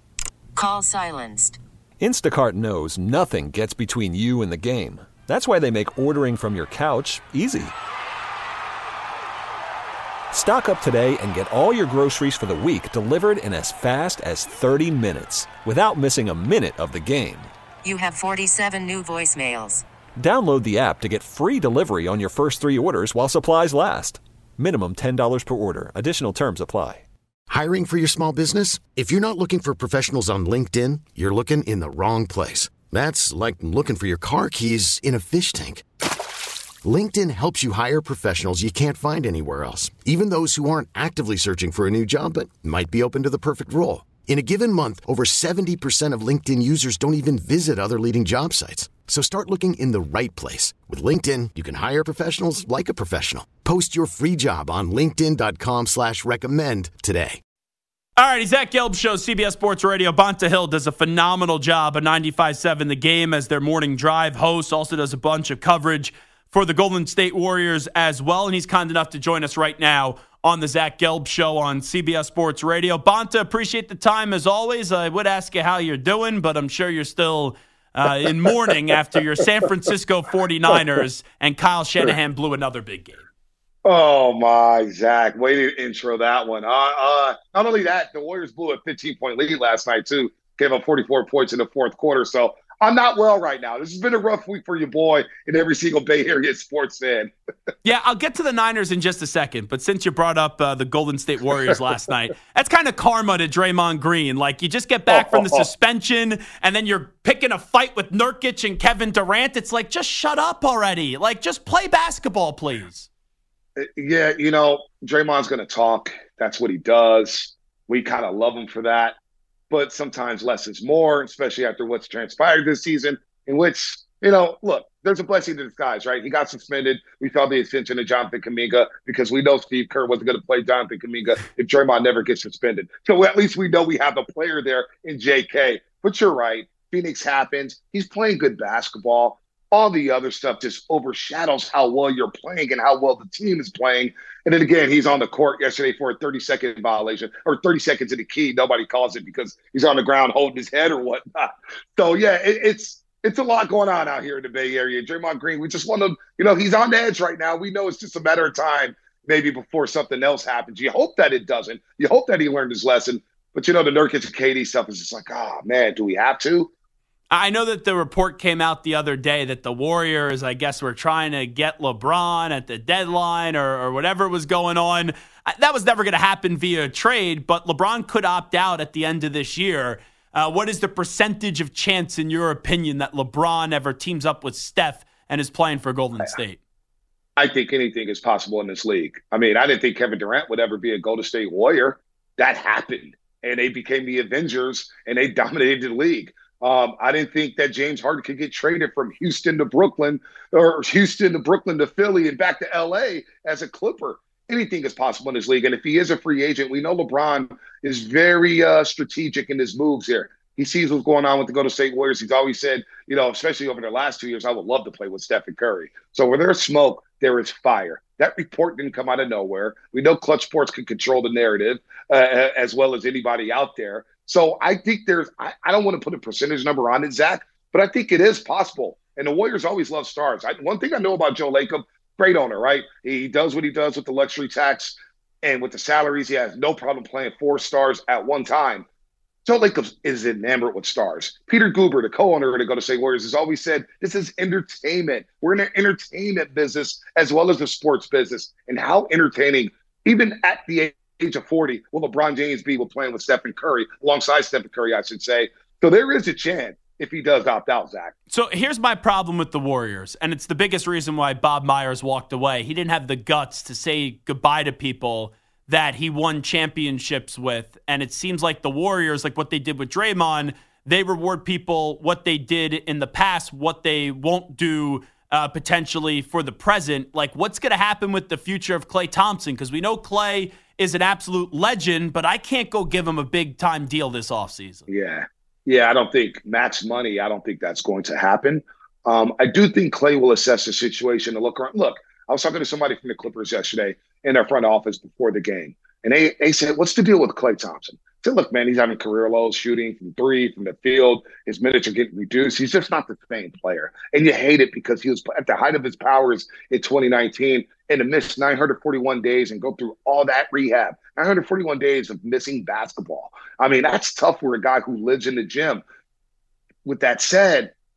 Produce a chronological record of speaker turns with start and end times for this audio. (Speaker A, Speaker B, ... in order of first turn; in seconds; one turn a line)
Speaker A: 0.6-1.6
Speaker B: 2.0-7.7
Speaker B: 10.3-17.5
Speaker A: 17.9-19.8
Speaker B: 20.2-27.0
Speaker C: 27.5-35.9
Speaker C: 36.8-57.4
Speaker D: 58.2-83.2
Speaker E: 83.8-97.3
Speaker D: 97.8-113.1
Speaker E: 105.1-105.7
Speaker E: 113.8-119.2
Speaker E: 119.7-166.7
Speaker D: 167.3-186.6
Speaker E: 187.4-238.8
Speaker E: 239.4-258.1
Speaker D: 258.3-284.9
Speaker E: 284.9-315.8
Speaker E: 316.9-317.7